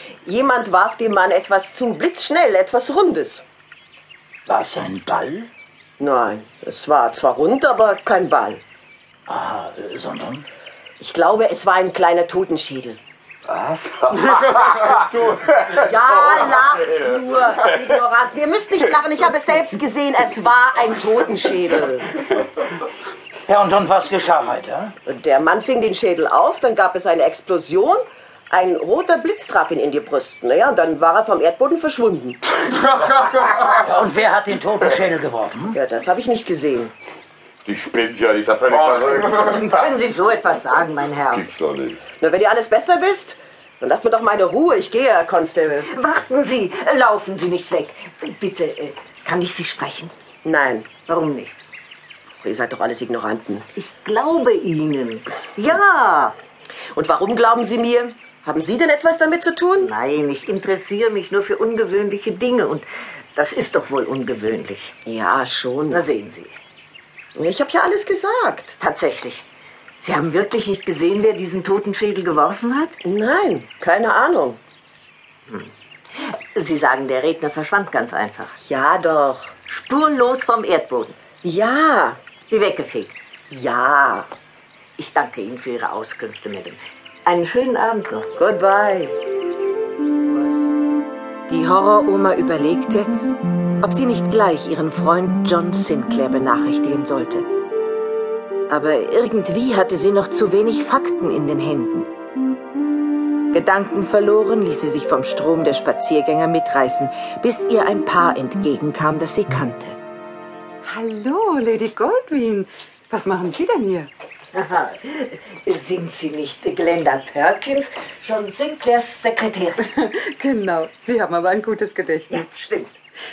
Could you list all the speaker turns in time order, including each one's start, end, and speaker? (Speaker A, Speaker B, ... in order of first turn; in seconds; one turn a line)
Speaker A: 0.2-3.4
Speaker B: 4.5-5.5
Speaker A: 6.0-8.6
Speaker B: 9.3-10.4
Speaker A: 11.0-13.0
Speaker C: 13.4-15.4
Speaker A: 15.7-22.1
Speaker B: 23.5-24.9
Speaker A: 25.1-32.4
Speaker B: 33.6-35.8
Speaker A: 35.7-36.9
Speaker C: 37.6-39.5
Speaker D: 39.3-41.4
Speaker C: 41.3-42.0
Speaker A: 42.2-45.9
Speaker D: 45.9-50.1
Speaker A: 50.4-50.9
Speaker D: 51.0-51.6
Speaker A: 52.4-53.6
Speaker D: 53.8-56.3
Speaker A: 56.9-59.9
Speaker D: 59.8-64.9
Speaker A: 65.0-66.0
Speaker D: 65.9-66.5
Speaker A: 67.3-68.8
Speaker D: 68.8-69.4
Speaker D: 70.0-72.9
Speaker A: 73.0-74.6
Speaker D: 76.3-78.5
Speaker A: 78.6-79.5
Speaker D: 79.7-81.2
Speaker A: 81.4-82.2
Speaker D: 82.5-83.2
Speaker A: 83.5-84.3
Speaker D: 85.0-88.2
Speaker A: 88.4-89.2
Speaker A: 90.0-90.7
Speaker E: 91.5-93.1
Speaker E: 93.8-97.5
Speaker E: 98.7-102.1
Speaker E: 103.5-110.0
Speaker F: 110.8-114.1
Speaker D: 114.5-119.8
Speaker F: 119.9-122.5
Speaker D: 122.3-122.9